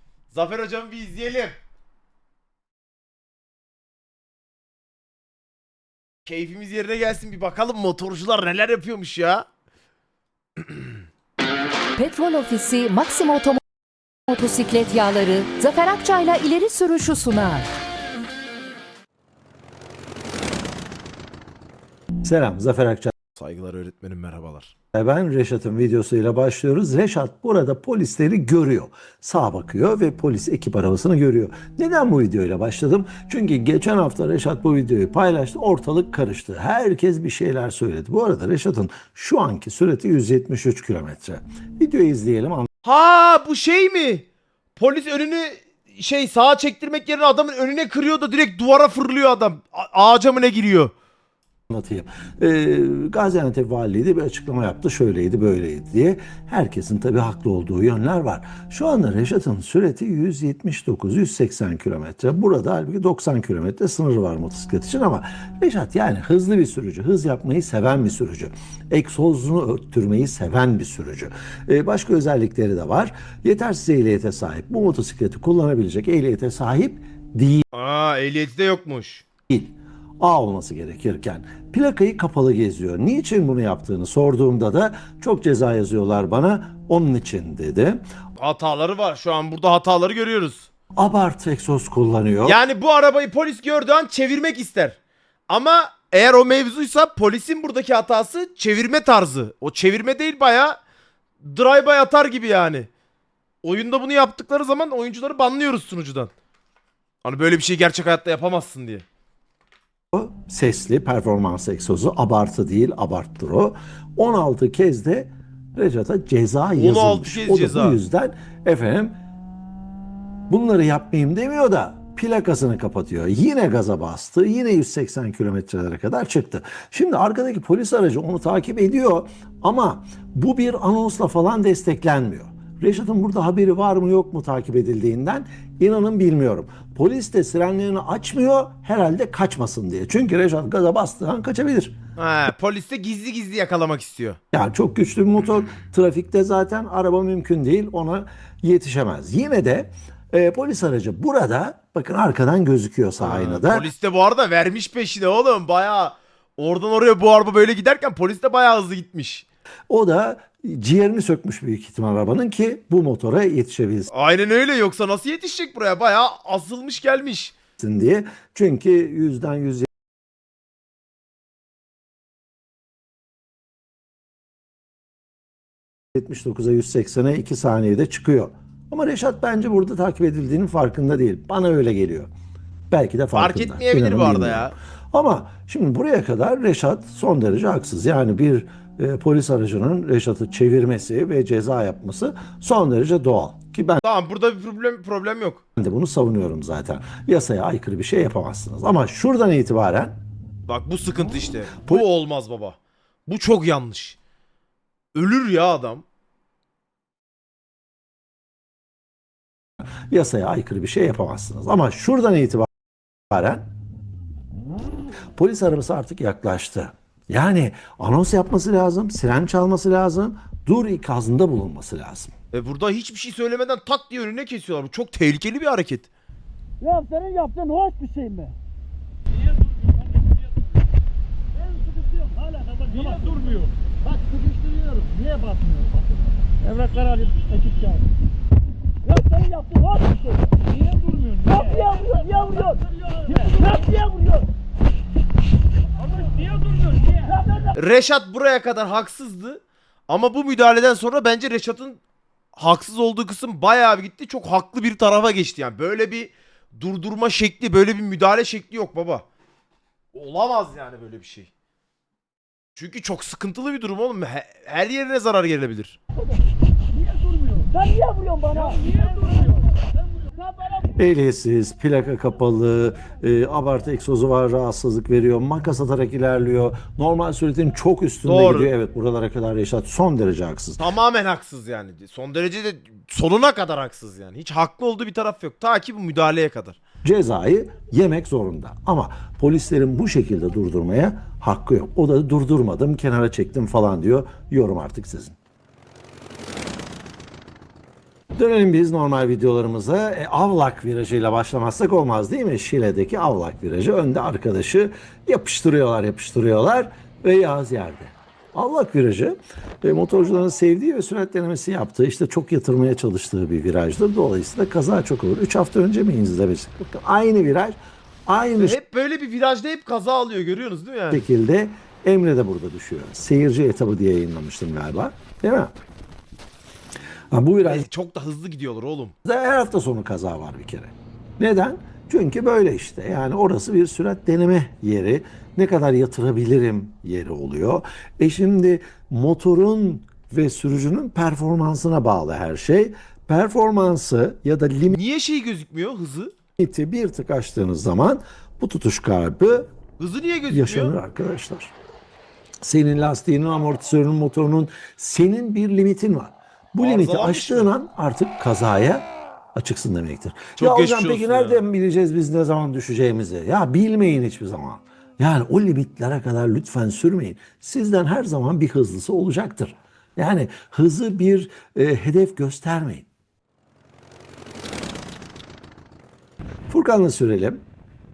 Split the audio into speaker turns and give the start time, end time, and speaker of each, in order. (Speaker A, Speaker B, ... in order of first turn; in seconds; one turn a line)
Speaker A: 0.3-1.6
Speaker A: 6.2-9.5
Speaker B: 11.9-13.6
Speaker B: 14.3-17.7
Speaker C: 22.2-23.1
Speaker A: 23.3-24.7
Speaker C: 24.9-42.7
Speaker A: 42.8-50.9
Speaker C: 51.7-77.6
Speaker A: 77.7-79.2
Speaker C: 79.5-88.0
Speaker A: 88.4-90.7
Speaker C: 91.0-92.6
Speaker A: 92.4-100.8
Speaker A: 101.4-102.9
Speaker A: 103.6-106.3
Speaker A: 107.2-109.0
Speaker C: 110.1-119.2
Speaker A: 116.7-118.0
Speaker C: 120.5-142.0
Speaker A: 142.2-144.4
Speaker C: 144.5-153.9
Speaker A: 153.2-159.4
Speaker C: 159.9-164.1
Speaker A: 164.1-167.5
Speaker C: 167.8-169.9
Speaker C: 176.1-182.3
Speaker C: 182.9-194.0
Speaker A: 183.3-184.7
Speaker A: 194.0-195.6
Speaker C: 195.8-200.2
Speaker A: 200.7-204.2
Speaker A: 205.1-206.0
Speaker C: 209.8-212.7
Speaker C: 213.3-213.7
Speaker C: 215.3-222.3
Speaker A: 222.5-226.1
Speaker D: 226.8-228.5
Speaker D: 231.7-235.9
Speaker D: 236.6-238.0
Speaker D: 239.1-244.4
Speaker D: 246.9-247.6
Speaker A: 247.7-252.0
Speaker A: 252.5-259.2
Speaker A: 260.1-261.5
Speaker A: 262.8-266.0
Speaker D: 267.5-269.6
Speaker C: 270.9-280.9
Speaker A: 278.2-278.7
Speaker A: 280.8-286.8
Speaker C: 287.0-295.4
Speaker C: 298.3-318.8
Speaker A: 318.6-321.2
Speaker C: 321.1-325.8
Speaker C: 327.3-327.9
Speaker A: 327.6-329.1
Speaker C: 329.2-345.0
Speaker A: 344.9-346.3
Speaker C: 346.6-349.7
Speaker A: 350.0-350.9
Speaker C: 350.5-351.7
Speaker C: 352.6-373.1
Speaker A: 356.8-357.7
Speaker A: 360.6-361.6
Speaker C: 376.7-377.6